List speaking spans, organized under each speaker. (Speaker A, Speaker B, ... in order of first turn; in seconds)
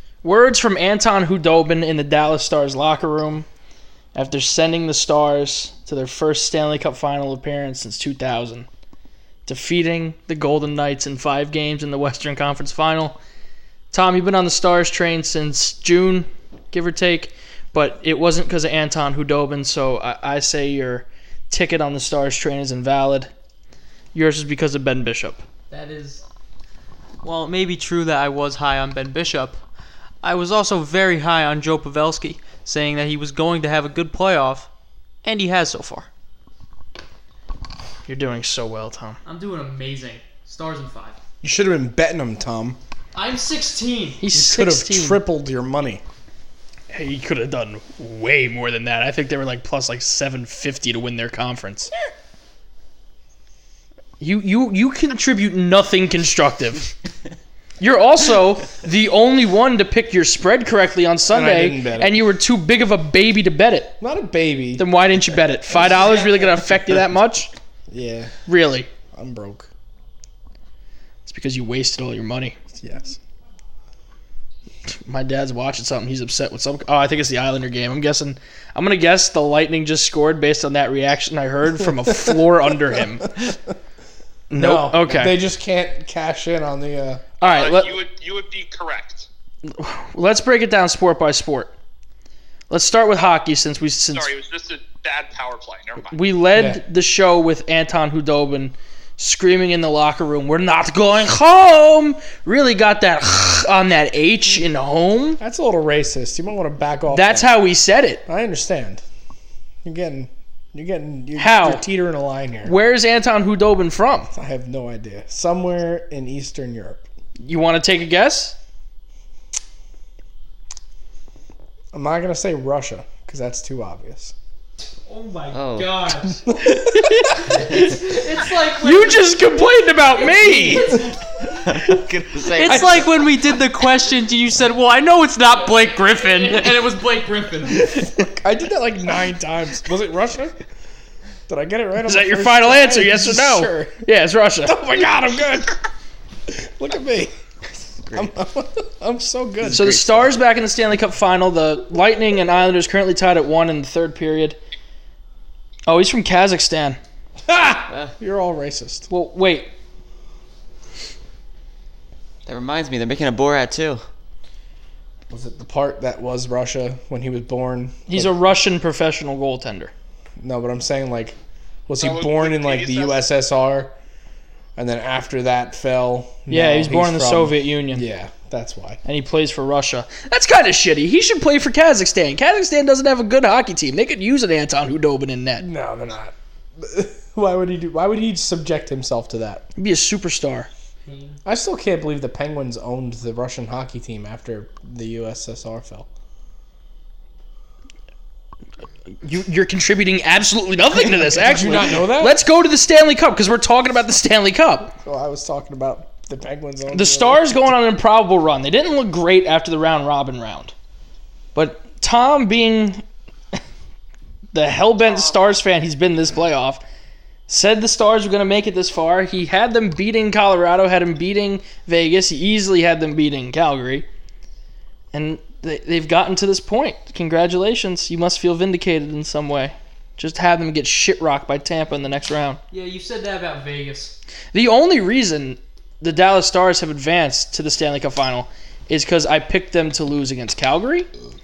Speaker A: 0.2-3.5, 4.2-8.7, 9.5-13.2, 13.9-23.3, 24.1-25.4, 38.1-39.2, 44.2-45.2, 46.9-51.9, 54.2-56.9, 57.8-64.0, 64.8-67.5, 68.5-68.9, 71.3-72.6, 74.9-83.4, 84.5-85.3, 87.4-88.0, 89.6-91.7, 92.7-94.3, 96.1-105.4, 107.1-108.2, 111.4-111.8, 112.6-114.3, 117.4-118.6, 126.7-127.9, 128.8-131.0, 132.7-133.0, 142.1-145.1, 149.7-154.6, 155.9-157.0, 159.1-159.7, 168.1-169.9, 176.5-178.1, 179.1-185.7, 189.8-190.7, 199.2-204.9, 206.9-210.7, 211.6-213.0, 214.5-216.8, 217.5-224.1, 225.1-232.6, 234.5-241.1
Speaker B: 25.7-26.2, 27.2-29.6, 30.2-34.7, 35.2-36.1, 39.2-41.2, 43.1-44.2, 125.1-126.6, 127.4-131.9, 132.5-138.2, 191.1-191.4, 232.7-234.2
Speaker C: 41.4-42.8, 44.3-46.0, 61.2-62.2, 64.0-64.8, 67.9-68.3, 69.1-69.7, 72.8-73.2, 84.5-87.3, 96.5-96.8, 105.4-107.6, 108.3-109.0, 109.8-112.8, 114.3-117.0, 121.9-124.3, 126.5-127.4, 130.7-130.9, 137.9-140.6, 141.5-144.0, 144.6-145.8, 146.5-147.3, 148.1-150.3, 157.5-159.1, 165.3-168.3, 170.4-171.4, 171.9-173.9, 174.8-179.0, 185.6-189.7, 191.4-196.1, 200.9-202.4, 205.0-207.6
Speaker D: 87.4-89.3, 94.1-96.2, 172.0-173.2
Speaker E: 125.5-126.1, 131.4-133.3, 147.9-148.4, 157.8-158.2, 162.5-164.0